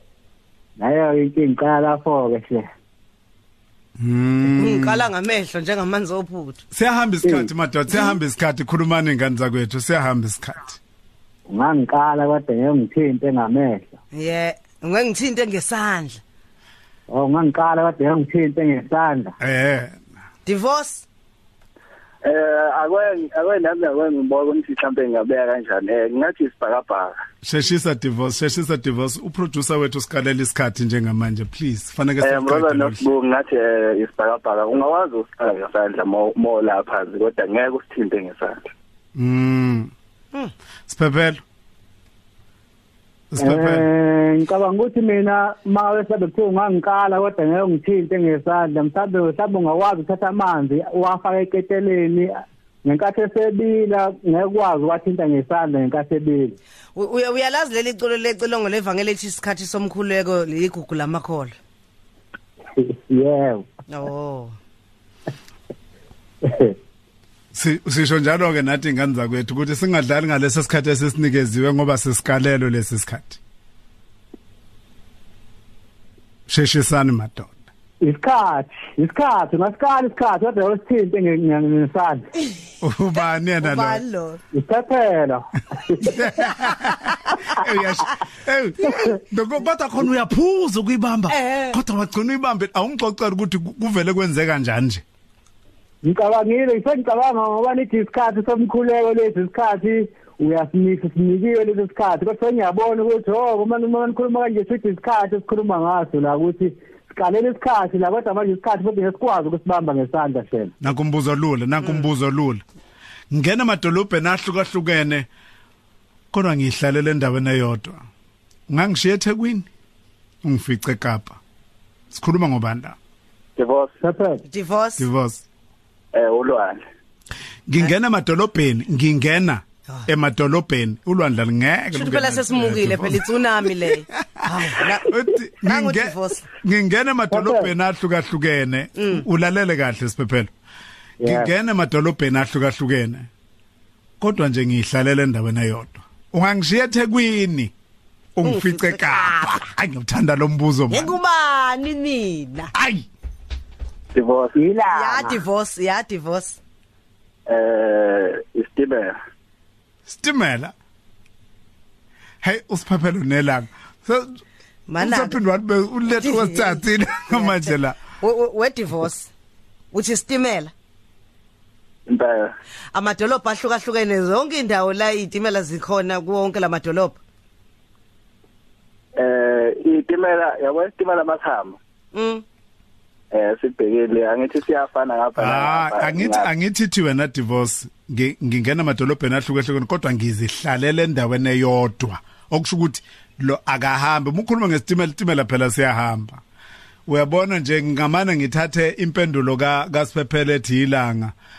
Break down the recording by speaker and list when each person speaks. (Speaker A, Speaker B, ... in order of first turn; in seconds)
Speaker A: 0.8-2.7, 11.5-14.0, 17.1-19.4, 43.4-56.6, 62.8-63.7, 66.5-66.7, 78.0-82.3, 84.5-86.2, 96.0-110.7, 124.0-124.4, 137.3-137.7, 141.2-141.5, 154.6-155.4
Speaker B: 4.0-5.1, 6.7-10.8, 19.4-20.1, 27.4-33.1, 39.1-39.9, 40.9-41.4, 43.3-43.9, 67.5-73.4, 76.5-77.5, 82.8-84.0, 86.0-95.0, 110.8-112.6, 113.3-115.3, 116.3-118.0, 118.7-119.7, 120.4-121.4, 122.1-123.0, 125.0-125.4, 127.7-133.2, 134.8-140.5, 141.2-143.3, 144.2-147.7, 148.4-151.2, 152.7-153.1, 160.1-160.7, 162.4-164.4, 165.0-168.0, 185.4-196.4, 197.1-201.3
Speaker C: 4.5-6.6, 14.1-16.2, 20.5-21.1, 57.0-61.5, 63.9-64.6, 83.6-84.4, 91.3-91.8, 124.5-125.0, 131.9-136.5, 139.0-139.2, 148.4-149.6, 150.9-152.7, 154.9-156.6, 164.9-165.4, 166.2-169.3, 169.9-170.7, 172.9-177.2, 182.1-182.4
Speaker D: 22.2-27.1, 32.2-38.6, 123.6-123.9, 126.2-126.8, 154.1-154.6, 157.5-159.1, 172.1-172.5, 179.2-181.8, 183.3-186.5